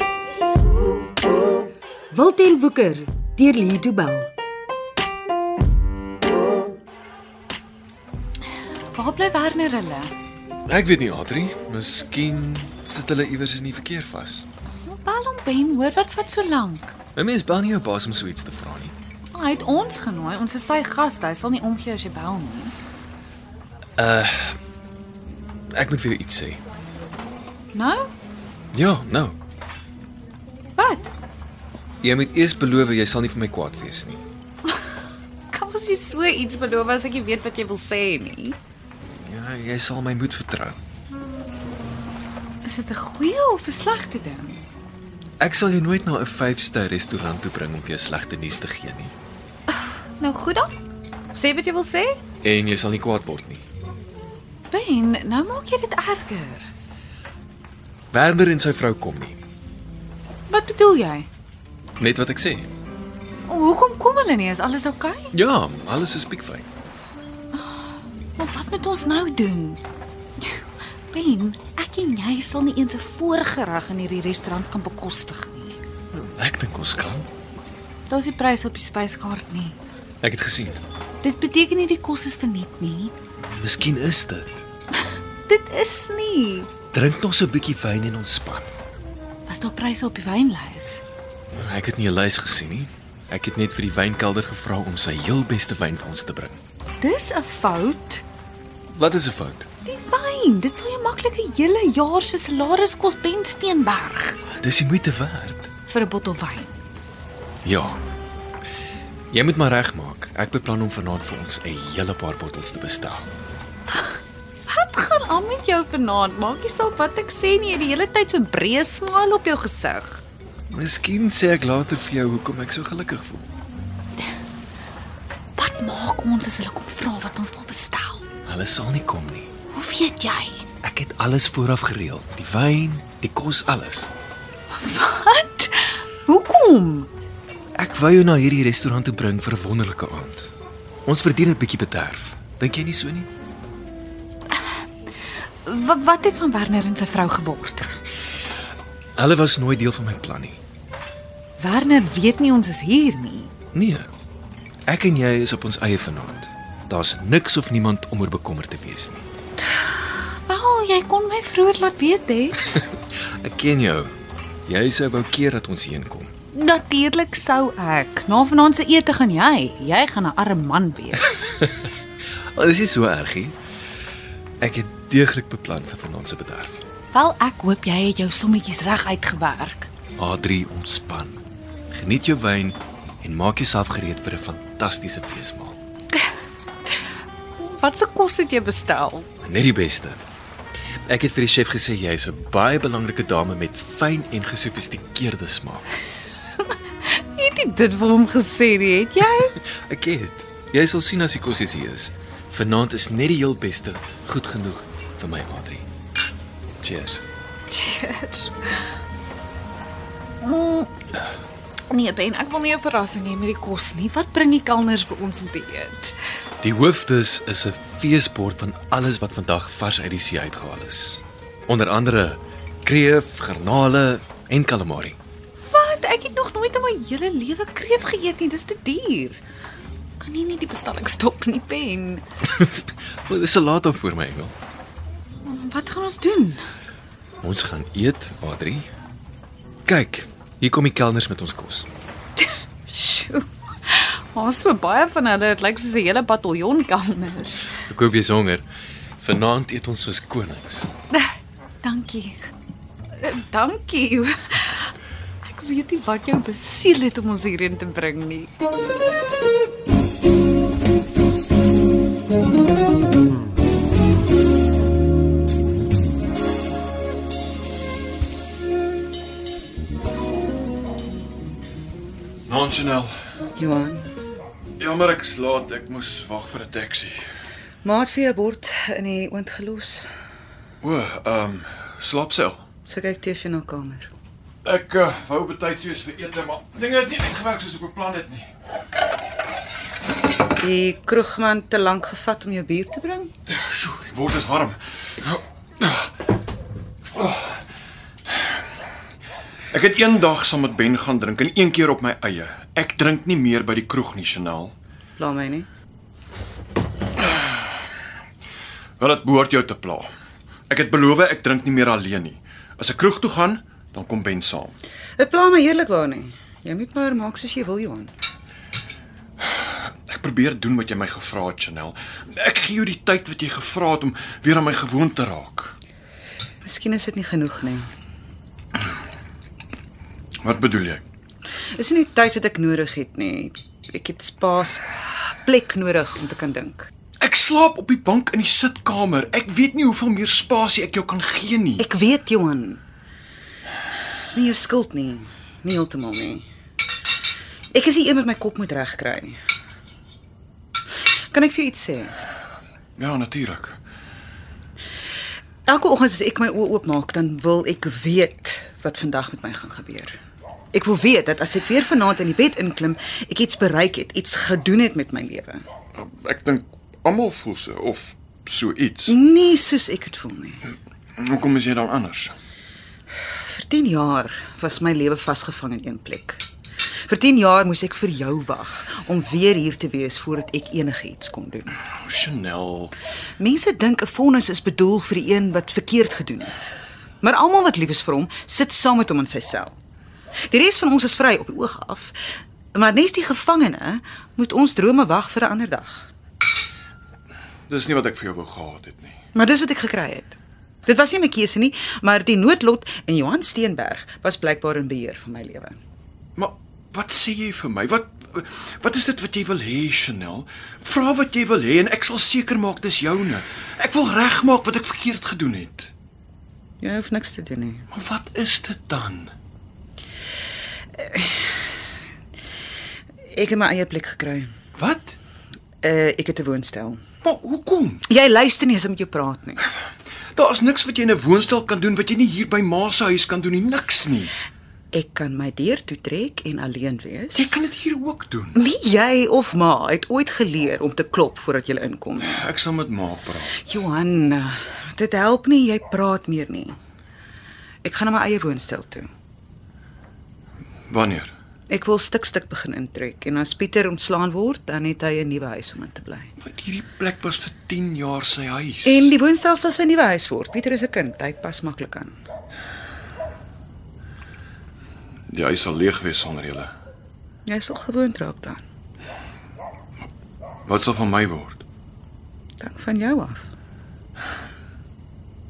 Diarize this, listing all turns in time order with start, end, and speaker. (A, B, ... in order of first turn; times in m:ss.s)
0:02.1-0:04.3 A
0:08.9-0:10.1 B
0:10.6-0:14.4 C
0:14.8-0:16.9 B
0:17.1-0:18.9 C
0:19.3-0:22.7 B
0:24.0-0:24.6 C
0:25.7-0:26.6 C
0:27.7-0:28.1 B
0:28.7-0:29.4 C
0:30.8-0:31.1 B
0:32.0-0:34.2 C
0:35.5-0:38.6 B
0:39.2-0:40.8 C
0:42.6-0:44.6 B
0:45.4-0:49.1 C
0:49.7-0:50.7 B
0:51.3-0:52.2 B
0:52.4-0:53.6 C
0:54.7-0:56.7 B
0:58.1-0:59.4 C
1:00.5-1:01.3 B
1:02.0-1:02.7 C
1:03.5-1:05.3 B
1:05.3-1:06.6 C
1:07.5-1:09.8 B
1:10.4-1:15.8 B
1:16.1-1:17.3 C
1:18.1-1:19.8 B
1:20.2-1:20.8 C
1:21.2-1:23.1 B
1:23.4-1:24.6 C
1:25.5-1:26.7 B
1:26.9-1:28.7 C
1:29.5-1:31.0 B
1:31.6-1:36.6 C
1:37.0-1:38.2 B
1:38.9-1:39.7 C
1:39.8-1:44.4 B
1:44.5-1:45.7 C
1:45.8-1:46.8 B
1:47.6-1:48.0 C
1:49.3-1:53.3 C
1:54.0-2:00.2 B
2:00.7-2:03.4 C
2:05.6-2:08.2 B
2:08.4-2:09.5 C
2:09.7-2:10.6 B
2:10.8-2:14.1 C
2:14.7-2:17.1 B
2:17.7-2:20.5 C
2:21.0-2:23.3 C
2:25.6-2:27.9 B
2:29.2-2:30.6 C
2:31.6-2:33.5 B
2:33.7-2:34.1 C
2:34.8-2:39.2 C
2:39.7-2:42.8 B
2:43.4-2:44.1 C
2:44.7-2:46.3 C
2:46.5-2:51.5 B
2:52.5-2:53.6 C
2:54.6-2:56.8 C
2:57.1-2:59.9 B
3:00.2-3:05.8 C
3:07.6-3:09.3 B
3:09.4-3:10.2 C
3:11.0-3:15.9 C
3:16.6-3:19.5 B
3:19.3-3:25.9 C
3:26.8-3:27.2 C
3:27.7-3:28.9 B
3:30.4-3:30.9 B
3:31.9-3:36.2 B
3:36.6-3:45.2 C
3:45.7-3:49.4 B
3:50.2-3:52.2 B
3:52.5-3:54.5 C
3:55.4-3:56.6 B
3:57.4-3:58.9 C
3:59.8-4:01.9 C
4:02.9-4:07.7 B
4:07.8-4:08.6 C
4:09.2-4:10.9 C
4:11.8-4:12.4 B
4:13.2-4:14.9 B
4:15.4-4:18.5 B
4:32.5-4:33.1 D
4:33.6-4:34.1 E
4:34.8-4:37.2 D
4:37.8-4:40.1 E
4:40.8-4:42.6 D
4:42.9-4:44.1 E
4:44.6-4:48.5 D
4:50.6-4:53.3 E
4:53.5-4:56.1 D
4:57.1-4:57.6 D
4:59.7-5:04.7 D
5:05.2-5:05.7 E
5:09.0-5:10.1 D
5:10.7-5:14.8 D
5:15.2-5:18.1 E
5:19.4-5:25.7 D
5:26.6-5:27.9 E
5:30.4-5:31.0 D
5:31.7-5:34.8 E
5:35.4-5:36.9 E
5:37.2-5:41.8 D
5:41.8-5:42.8 E
5:44.2-5:46.4 E
5:47.7-5:49.4 E
5:51.3-5:52.1 E
5:53.0-5:53.8 D
5:55.7-6:00.2 E
6:00.7-6:05.6 E
6:05.9-6:09.1 D
6:09.1-6:10.6 E
6:11.2-6:12.3 D
6:13.4-6:16.4 E
6:17.0-6:21.7 E
6:22.0-6:22.9 D
6:23.4-6:29.7 E
6:30.5-6:32.2 E
6:32.7-6:36.1 E
6:37.7-6:39.2 D
6:39.3-6:40.3 E
6:40.8-6:45.8 E
6:46.4-6:55.9 D
6:56.8-6:57.8 E
6:57.9-6:59.3 D
7:01.0-7:01.6 E
7:03.3-7:04.5 E
7:04.8-7:05.1 D
7:05.8-7:07.0 E
7:07.2-7:08.0 D
7:08.1-7:09.6 E
7:10.3-7:14.3 D
7:14.9-7:17.7 E
7:17.3-7:18.6 D
7:18.5-7:22.4 E
7:22.2-7:23.6 D
7:23.6-7:26.7 E
7:27.8-7:29.1 E
7:30.9-7:31.3 D
7:31.7-7:36.3 E
7:36.4-7:39.1 D
7:38.8-7:42.1 E
7:45.3-7:46.7 D
7:47.4-7:48.6 E
7:50.6-7:51.6 D
7:52.6-7:53.5 E